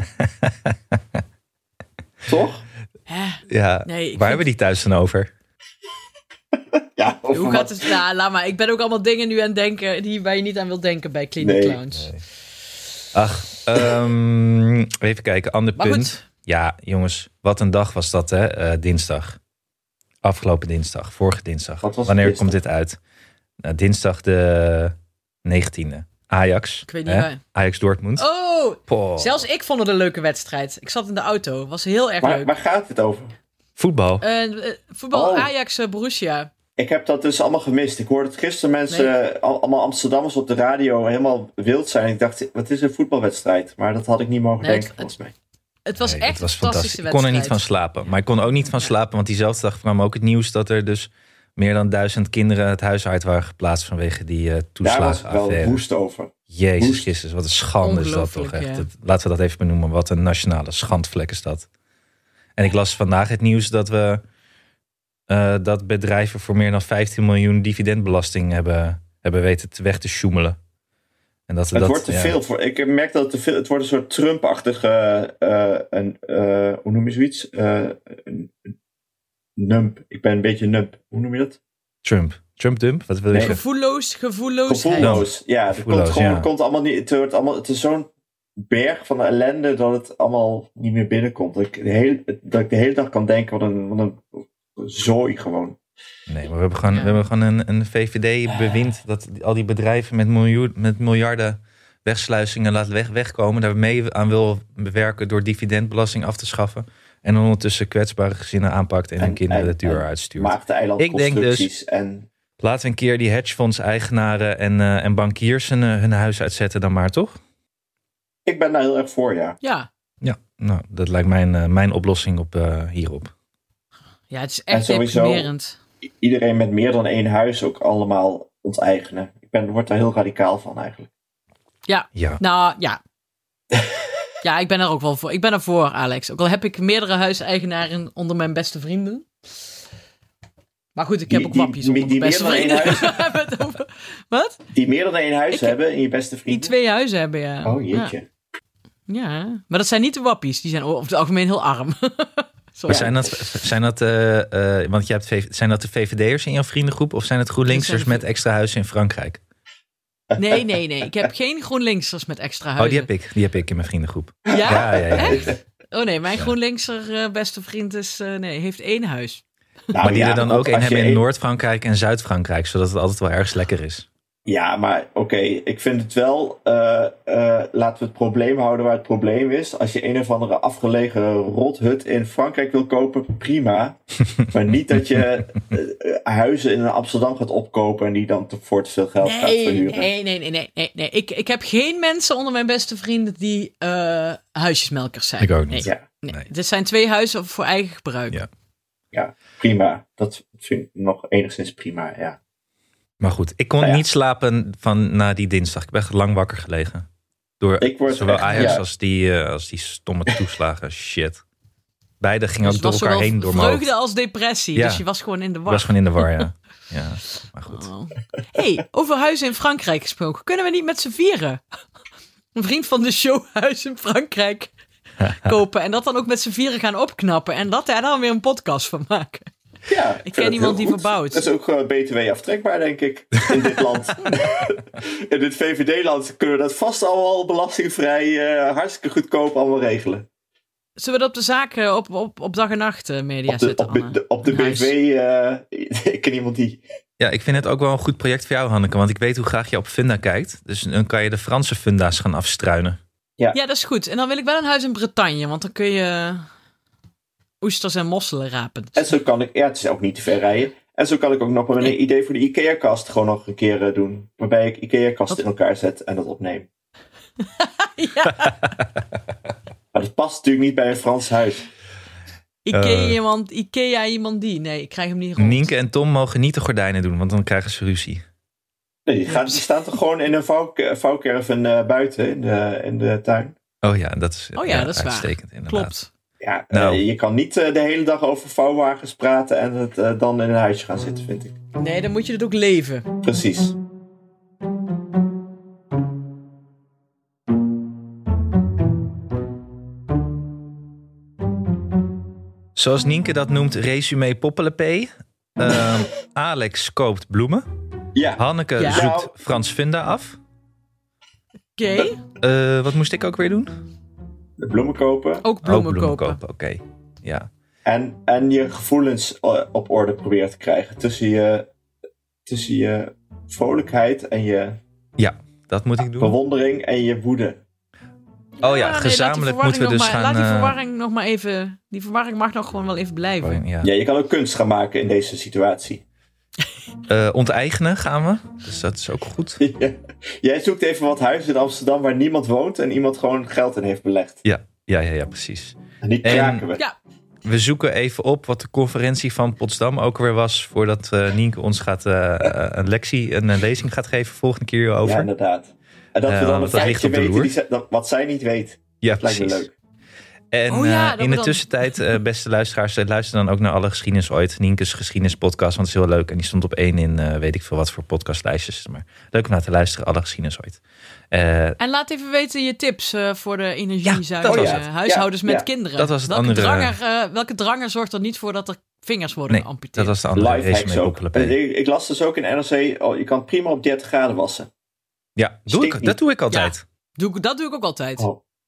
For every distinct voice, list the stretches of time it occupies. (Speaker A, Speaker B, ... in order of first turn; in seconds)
Speaker A: 2.3-2.6, 6.7-7.9, 11.4-11.8, 21.8-22.6, 32.2-33.3, 35.1-35.5, 36.8-45.3, 54.8-57.1, 71.7-78.5, 79.6-81.6, 83.3-83.6, 84.7-95.8, 109.2-112.3, 118.5-119.6, 124.7-125.5, 126.2-131.1, 141.3-143.2, 144.7-146.7, 147.7-148.2, 152.9-153.3, 160.3-160.7, 164.7-165.5, 169.9-171.2, 174.5-190.1, 199.1-202.4, 207.8-208.8, 229.9-240.2, 243.5-246.8, 259.0-266.7, 269.9-271.6, 279.1-283.6, 286.4-291.6, 293.2-293.8, 308.1-309.3, 314.6-315.4, 317.9-321.7, 322.5-324.8, 326.0-327.6, 333.8-336.0, 339.6-344.4, 346.0-346.8, 355.0-359.7, 374.5-375.7, 380.3-384.7, 385.7-386.2
Speaker B: 3.1-4.5, 7.3-12.1, 15.8-16.2, 26.9-27.4, 28.2-32.5, 34.2-36.5, 44.6-45.1, 45.9-48.1, 57.8-58.9, 83.4-85.2, 96.9-97.2, 119.6-119.9, 124.3-125.8, 131.9-133.0, 134.4-139.3, 140.9-144.6, 145.5-145.8, 146.5-148.1, 149.1-153.1, 157.7-158.2, 160.4-163.1, 164.5-169.4, 189.2-198.4, 208.5-208.8, 212.6-216.5, 217.7-221.6, 222.5-224.7, 225.3-229.5, 230.2-231.5, 241.0-244.9, 253.5-256.5, 257.6-259.1, 267.4-268.7, 272.6-275.7, 279.3-279.6, 284.5-286.1, 291.8-293.1, 308.8-309.0, 311.8-312.2, 315.4-316.4, 328.6-333.6, 360.7-362.0, 371.8-380.1, 386.5-388.3
Speaker C: 3.5-5.3, 11.9-12.2, 13.1-19.4, 20.2-23.0, 23.6-28.3, 28.9-29.4, 33.8-34.2, 46.0-55.8, 56.5-61.7, 62.6-64.2, 65.3-70.6, 71.5-72.3, 82.0-83.6, 85.0-86.5, 96.3-111.7, 112.6-117.4, 120.2-123.3, 152.9-159.4, 162.8-165.6, 170.0-174.1, 195.4-196.4, 203.2-207.1, 207.6-211.4, 212.2-213.9, 214.8-215.0, 215.7-217.9, 247.2-253.0, 272.7-273.2, 275.4-278.2, 283.8-285.9, 286.7-287.0, 302.8-307.6, 308.4-310.4, 312.4-313.7, 315.6-317.5, 325.2-326.4, 328.6-330.8, 333.4-333.9, 337.1-339.6, 344.4-346.6, 347.4-355.3, 356.2-357.5, 359.0-359.7, 360.5-370.8, 371.3-371.8, 374.0-374.8, 376.0-376.9, 379.5-381.6, 385.4-386.8